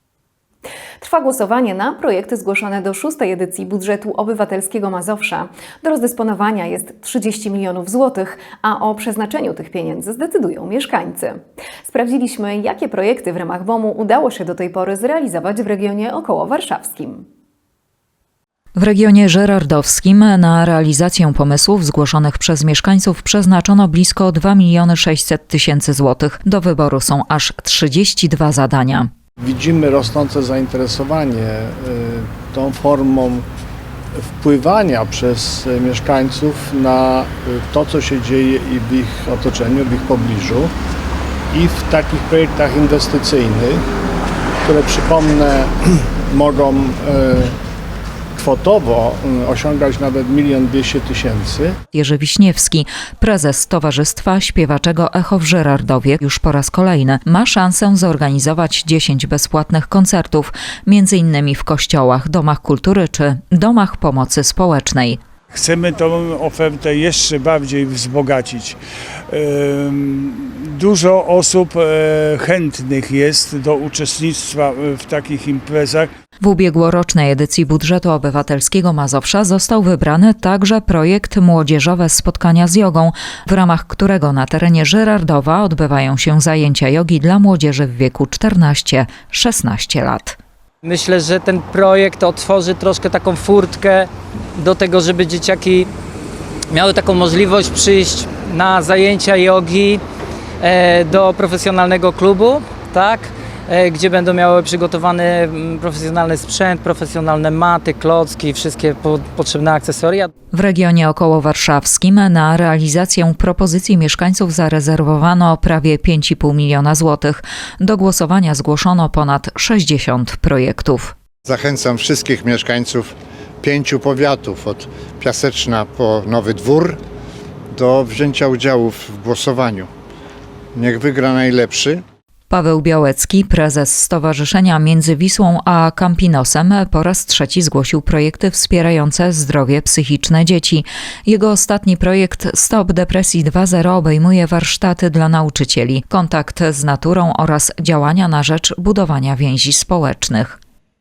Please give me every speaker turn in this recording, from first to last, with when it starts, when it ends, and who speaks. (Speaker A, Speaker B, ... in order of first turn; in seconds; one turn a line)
Speaker A: 1.0-17.2
Speaker B: 18.8-29.1
Speaker C: 29.4-33.4
Speaker C: 34.4-40.7
Speaker C: 41.5-43.8
Speaker C: 44.6-45.7
Speaker C: 46.3-47.5
Speaker C: 48.4-51.8
Speaker B: 51.9-65.2
Speaker D: 65.5-68.8
Speaker D: 69.3-76.1
Speaker B: 76.4-90.4
Speaker E: 90.8-95.9
Speaker E: 96.7-100.0
Speaker E: 100.6-110.3
Speaker B: 110.5-121.1
Speaker F: 121.5-123.1
Speaker F: 123.6-127.0
Speaker F: 127.8-129.9
Speaker F: 130.8-132.0
Speaker B: 132.5-150.6